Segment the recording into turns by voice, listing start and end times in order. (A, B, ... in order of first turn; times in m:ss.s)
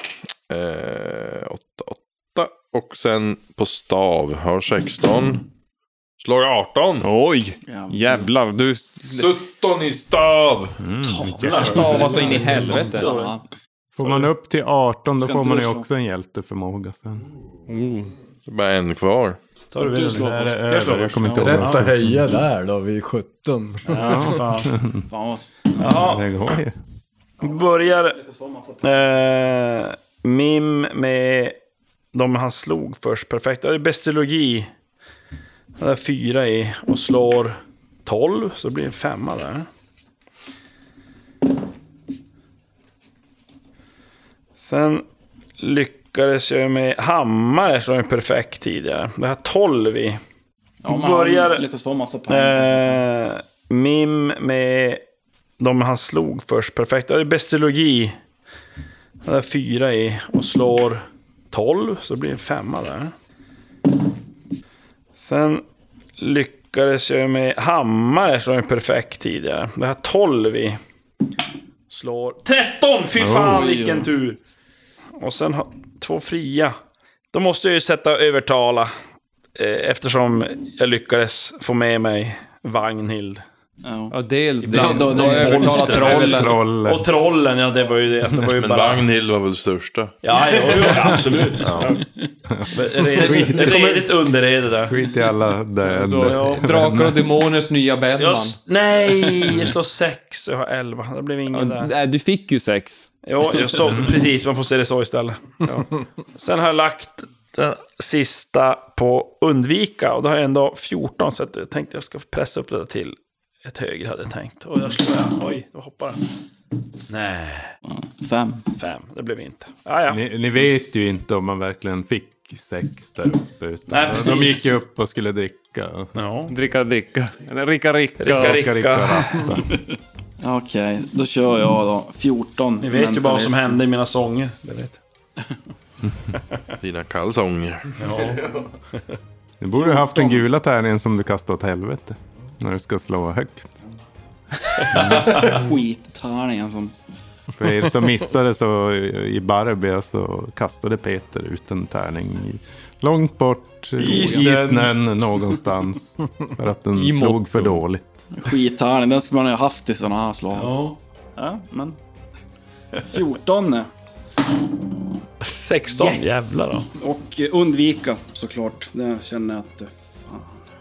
0:00.5-0:05.5 A
0:06.2-0:07.1 A
0:07.0-0:09.3 B
0:07.7-0:08.3 C
0:09.1-0:10.8 A
0:10.8-0:11.8 D
0:11.1-0:13.4 E
0:11.4-0:13.1 B
0:11.8-0:13.4 C
0:14.0-0:17.3 D
0:14.0-0:14.3 E
0:15.2-0:15.9 C
0:17.7-0:18.1 B
0:18.5-0:19.4 A
0:19.7-0:21.9 E
0:19.9-0:22.3 D
0:21.4-0:24.3 F
0:23.9-0:24.7 E
0:24.0-0:25.0 D
0:25.1-0:25.7 C
0:25.8-0:26.3 E
0:25.9-0:26.8 D
0:27.4-0:28.2 E
0:27.4-0:28.9 C
0:28.8-0:31.6 E
0:32.1-0:34.7 E
0:35.8-0:39.7 E
0:44.6-0:45.0 E
0:45.6-0:50.2 E
0:50.8-0:53.0 C
0:50.8-0:51.6 E
0:52.3-0:55.0 E
0:55.6-0:58.2 E
0:59.2-1:03.1 E
1:05.2-1:05.6 E
1:06.2-1:10.8 E
1:11.9-1:14.4 E
1:13.2-1:13.6 D
1:13.5-1:14.1 C
1:15.2-1:16.7 E
1:17.3-1:18.9 E
1:19.6-1:23.4 E
1:23.8-1:24.2 C
1:24.1-1:26.6 B
1:24.7-1:26.1 C
1:24.7-1:29.1 E
1:26.0-1:27.1 D
1:28.6-1:30.2 A
1:30.2-1:31.9 E
1:31.6-1:31.9 A
1:32.5-1:34.1 D
1:32.7-1:35.0 E
1:34.9-1:37.2 D
1:35.9-1:38.6 B
1:36.2-1:36.7 E
1:38.2-1:41.9 E
1:41.5-1:43.1 B
1:43.2-1:45.4 E
1:43.9-1:44.2 D
1:46.4-1:56.2 E
1:57.1-1:57.7 E
1:57.9-1:58.7 C
1:58.8-2:00.2 E
2:00.1-2:06.1 D
2:03.9-2:04.8 E
2:06.2-2:06.5 E
2:06.5-2:08.7 B
2:08.2-2:09.8 E
2:08.3-2:09.7 D
2:10.4-2:13.8 C
2:12.8-2:15.0 E
2:16.8-2:17.9 A
2:18.0-2:18.6 E
2:19.6-2:23.8 D
2:19.8-2:20.4 C
2:24.9-2:26.9 C
2:24.9-2:25.3 D
2:24.9-2:25.6 E
2:27.6-2:38.3 D
2:34.0-2:34.9 E
2:37.0-2:37.8 B
2:38.3-2:40.8 C
2:40.5-2:41.0 E
2:41.4-2:42.0 C
2:43.1-2:43.9 C
2:45.4-2:46.9 E
2:45.9-2:50.6 C